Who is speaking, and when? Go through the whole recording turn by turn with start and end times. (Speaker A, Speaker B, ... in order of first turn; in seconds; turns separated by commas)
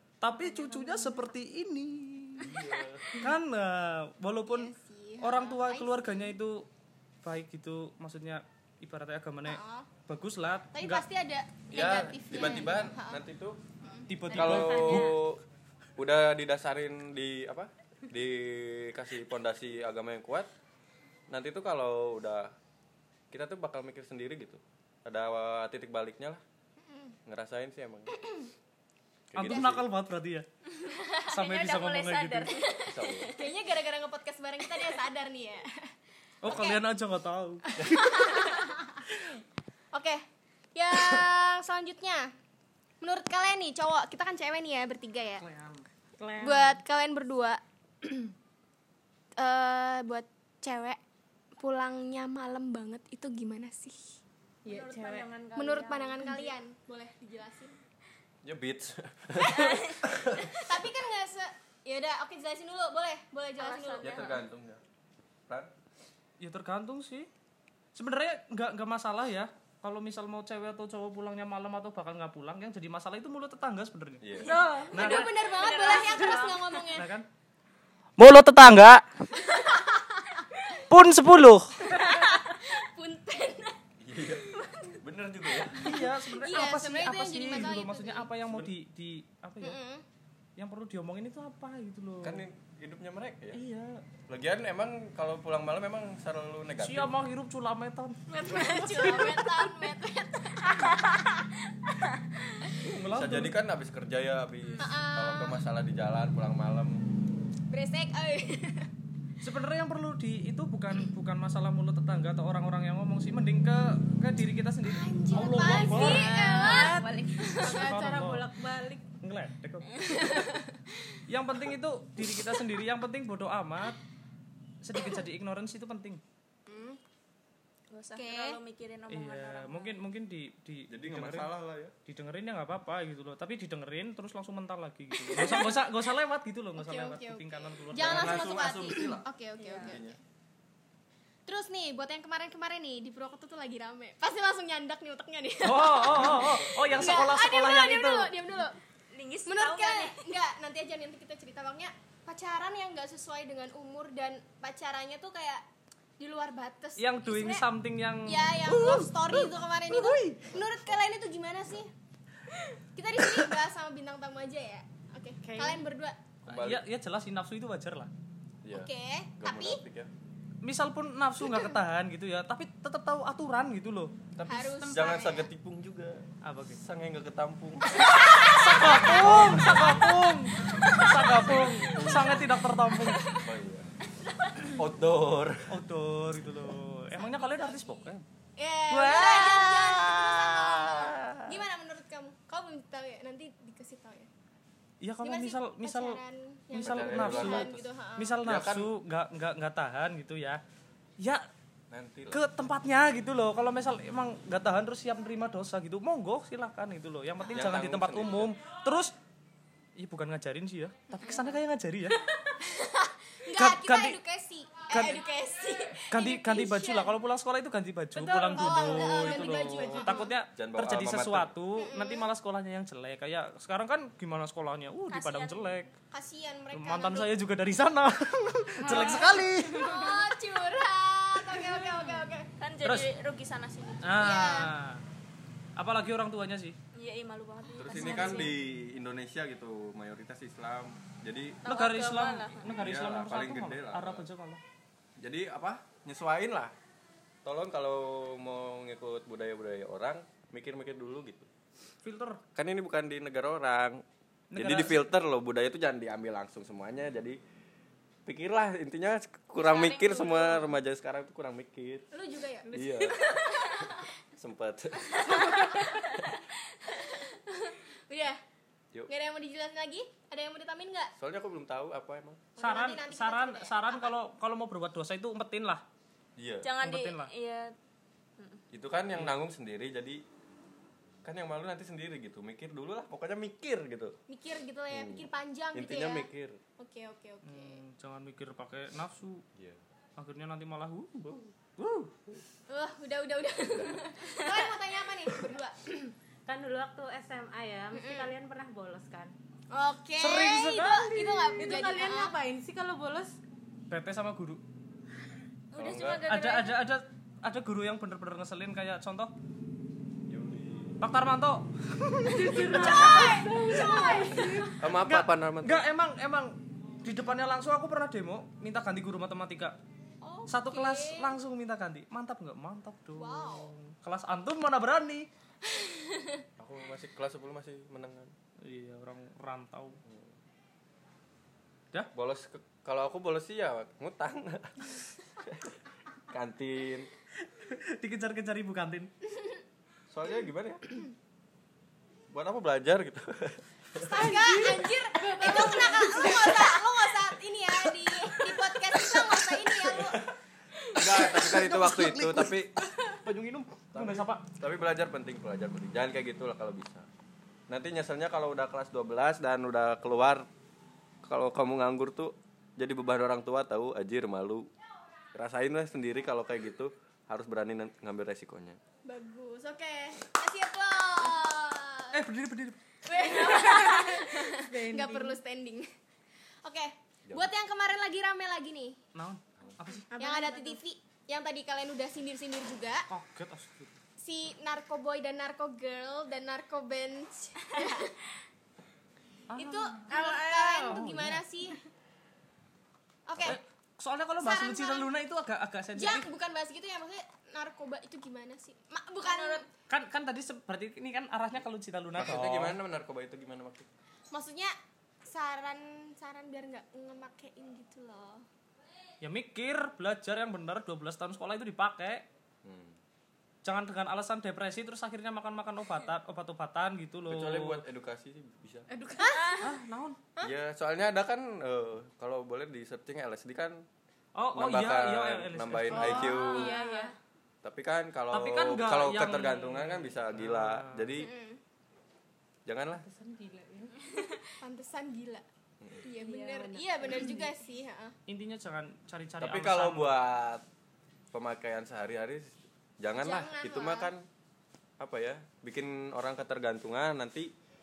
Speaker A: 0.2-2.6, Speaker B: 2.4-3.1, Speaker A: 3.1-6.7, Speaker C: 4.5-6.3, Speaker A: 7.2-11.1, Speaker C: 9.4-9.9, Speaker C: 10.7-13.2, Speaker B: 11.7-13.6, Speaker C: 13.8-14.1, Speaker A: 14.1-15.2, Speaker B: 14.3-15.4, Speaker D: 14.5-15.0, Speaker B: 16.0-20.5, Speaker B: 21.3-22.5, Speaker B: 23.3-26.4, Speaker C: 26.8-27.1, Speaker B: 27.2-28.1, Speaker B: 29.3-29.9, Speaker A: 29.3-30.4, Speaker E: 30.8-33.4, Speaker A: 31.3-32.5, Speaker B: 32.9-33.3, Speaker C: 33.3-35.9, Speaker A: 36.4-37.8, Speaker C: 36.4-36.8, Speaker C: 37.8-39.0, Speaker C: 39.9-42.3, Speaker C: 43.0-45.4, Speaker A: 45.4-46.7, Speaker D: 46.2-46.6, Speaker C: 46.4-48.3, Speaker C: 49.4-51.0, Speaker C: 51.6-54.2, Speaker D: 54.6-55.2, Speaker E: 54.6-56.5, Speaker C: 55.5-57.8, Speaker B: 58.4-60.6, Speaker E: 59.5-60.0, Speaker C: 60.6-64.4, Speaker E: 63.6-64.4, Speaker B: 64.0-64.8, Speaker A: 66.4-67.3, Speaker A: 67.9-74.3, Speaker B: 74.2-74.6, Speaker E: 74.4-76.9, Speaker C: 74.6-77.1, Speaker A: 74.9-75.4, Speaker A: 76.9-77.2, Speaker A: 78.2-79.0, Speaker C: 79.5-80.1, Speaker A: 80.9-81.8, Speaker C: 81.8-83.8, Speaker B: 84.0-86.0, Speaker C: 84.6-84.9, Speaker A: 85.7-89.8, Speaker C: 85.9-88.3, Speaker C: 89.6-90.0, Speaker A: 90.6-92.4, Speaker B: 92.2-93.6, Speaker A: 93.5-94.0, Speaker B: 94.3-97.1, Speaker A: 96.8-98.2, Speaker E: 98.3-99.8, Speaker C: 98.3-101.2, Speaker A: 102.8-103.5, Speaker B: 103.0-107.0, Speaker E: 104.6-104.9, Speaker C: 104.8-105.6, Speaker C: 107.7-108.9, Speaker A: 109.4-116.3, Speaker C: 114.8-117.8, Speaker E: 115.6-117.8, Speaker D: 116.0-117.0, Speaker D: 117.6-119.0, Speaker A: 117.6-118.5, Speaker A: 119.2-119.9, Speaker C: 120.1-120.6, Speaker A: 121.3-124.0, Speaker A: 124.8-126.2, Speaker C: 126.7-127.0, Speaker E: 127.9-130.0, Speaker C: 128.1-128.6, Speaker A: 129.1-131.5, Speaker B: 130.9-131.9, Speaker A: 132.1-138.6, Speaker C: 135.3-135.8, Speaker C: 136.8-140.2, Speaker B: 137.9-140.2, Speaker E: 139.6-140.0, Speaker C: 141.4-148.8, Speaker A: 145.6-148.3, Speaker B: 146.1-147.3, Speaker E: 149.1-150.2, Speaker C: 149.5-155.6, Speaker C: 156.2-157.7, Speaker A: 157.0-160.5, Speaker C: 158.2-161.9, Speaker C: 162.9-166.2, Speaker D: 165.4-165.9, Speaker B: 166.4-166.8, Speaker A: 166.5-168.1, Speaker B: 168.6-170.1, Speaker C: 168.7-169.8, Speaker A: 170.6-174.1, Speaker B: 174.3-178.4, Speaker C: 174.5-175.5, Speaker A: 176.4-176.8, Speaker C: 178.0-180.0, Speaker A: 178.3-183.3, Speaker B: 179.0-179.8, Speaker B: 181.3-182.5, Speaker B: 183.3-183.9, Speaker B: 184.6-185.7, Speaker A: 185.7-188.2, Speaker C: 187.1-188.0, Speaker C: 188.6-194.3, Speaker A: 188.9-191.6, Speaker A: 195.0-196.2, Speaker C: 195.2-198.4, Speaker A: 196.7-200.6, Speaker B: 196.8-197.9, Speaker B: 198.4-198.9, Speaker A: 201.2-201.4, Speaker B: 201.9-202.5, Speaker A: 202.3-209.1, Speaker B: 207.5-208.5, Speaker A: 209.9-212.2, Speaker C: 212.6-217.1, Speaker A: 213.5-214.2, Speaker A: 214.9-215.2, Speaker A: 216.1-225.9, Speaker C: 218.1-220.3, Speaker B: 220.5-221.5, Speaker C: 221.8-222.3, Speaker E: 225.1-225.8, Speaker C: 226.1-227.3, Speaker A: 226.7-229.8, Speaker D: 228.8-229.3, Speaker C: 228.8-232.5, Speaker E: 229.8-230.3, Speaker E: 232.6-234.2, Speaker A: 232.8-233.1, Speaker A: 234.0-235.0, Speaker C: 234.2-234.7, Speaker A: 235.8-236.8, Speaker E: 236.9-238.5, Speaker B: 237.8-241.6, Speaker C: 237.8-238.4, Speaker E: 241.6-242.6, Speaker A: 241.7-244.6, Speaker B: 242.6-244.3, Speaker B: 245.2-246.7, Speaker B: 247.4-251.5, Speaker A: 252.0-252.4, Speaker B: 252.5-254.0, Speaker A: 254.5-255.0, Speaker B: 254.6-257.4, Speaker B: 258.2-262.1, Speaker E: 259.6-260.7, Speaker C: 262.1-264.0, Speaker B: 262.7-265.7, Speaker C: 265.1-266.3, Speaker C: 266.8-268.4, Speaker C: 269.1-271.1, Speaker B: 271.2-272.5, Speaker C: 272.6-274.1, Speaker A: 272.6-275.8, Speaker B: 276.4-276.7, Speaker E: 276.6-277.7, Speaker A: 276.8-277.3, Speaker B: 278.7-280.2, Speaker B: 281.2-284.1, Speaker C: 284.3-286.3, Speaker B: 284.9-286.6, Speaker C: 286.8-287.8, Speaker A: 287.4-289.4, Speaker B: 289.5-289.8, Speaker A: 290.2-292.4, Speaker C: 292.7-295.9, Speaker B: 293.7-294.0, Speaker D: 295.9-299.3, Speaker C: 297.9-298.3, Speaker C: 299.7-302.3, Speaker A: 300.2-301.5, Speaker D: 301.3-303.4, Speaker A: 303.9-304.6, Speaker E: 305.7-306.8, Speaker B: 305.7-306.2, Speaker A: 306.3-309.3, Speaker B: 310.3-311.0, Speaker A: 311.0-319.8, Speaker D: 312.3-314.7, Speaker C: 312.6-314.7, Speaker B: 314.8-315.8, Speaker C: 320.2-321.3, Speaker A: 320.5-325.3, Speaker C: 323.1-323.7, Speaker C: 326.1-326.4, Speaker B: 326.6-328.3, Speaker A: 328.6-330.0, Speaker B: 330.0-330.3, Speaker B: 332.1-337.1, Speaker A: 337.5-339.1, Speaker B: 340.1-341.0, Speaker B: 342.3-344.3, Speaker C: 343.9-350.2, Speaker A: 344.2-346.5, Speaker D: 344.5-344.8, Speaker D: 345.4-346.3, Speaker B: 349.9-350.3, Speaker A: 350.9-354.4, Speaker B: 350.9-352.7, Speaker B: 353.9-357.1, Speaker B: 357.7-360.5, Speaker B: 361.2-364.7, Speaker B: 365.3-368.8, Speaker C: 369.0-372.2, Speaker A: 372.1-372.8, Speaker C: 373.0-375.9, Speaker D: 373.8-375.4, Speaker C: 376.6-379.0, Speaker B: 377.3-377.5, Speaker A: 379.1-380.1, Speaker D: 380.1-380.8, Speaker C: 380.2-383.1, Speaker A: 383.1-384.0, Speaker C: 384.2-388.2, Speaker A: 389.5-391.4, Speaker C: 389.6-391.8, Speaker D: 390.2-390.7, Speaker C: 393.3-393.6, Speaker A: 393.4-396.2, Speaker C: 394.4-395.1, Speaker C: 395.9-399.6, Speaker E: 399.2-399.6, Speaker A: 399.9-402.8, Speaker B: 402.1-403.9, Speaker C: 404.3-404.7, Speaker C: 405.2-408.4, Speaker A: 409.2-412.2, Speaker B: 412.6-413.0, Speaker A: 413.6-417.8, Speaker B: 417.3-418.9, Speaker D: 418.9-419.6, Speaker C: 419.2-419.6, Speaker A: 419.6-420.2, Speaker B: 420.4-423.8, Speaker A: 424.3-426.5, Speaker B: 424.5-426.8, Speaker D: 425.9-427.1, Speaker C: 426.3-427.1, Speaker B: 427.6-431.3, Speaker A: 428.3-431.2, Speaker C: 431.2-431.6, Speaker B: 432.6-433.0, Speaker D: 433.0-433.9, Speaker C: 434.6-435.4, Speaker C: 436.0-438.1, Speaker D: 436.1-437.5, Speaker A: 438.3-440.2, Speaker B: 439.4-440.6, Speaker B: 441.3-444.2, Speaker C: 443.1-444.1, Speaker B: 445.0-447.5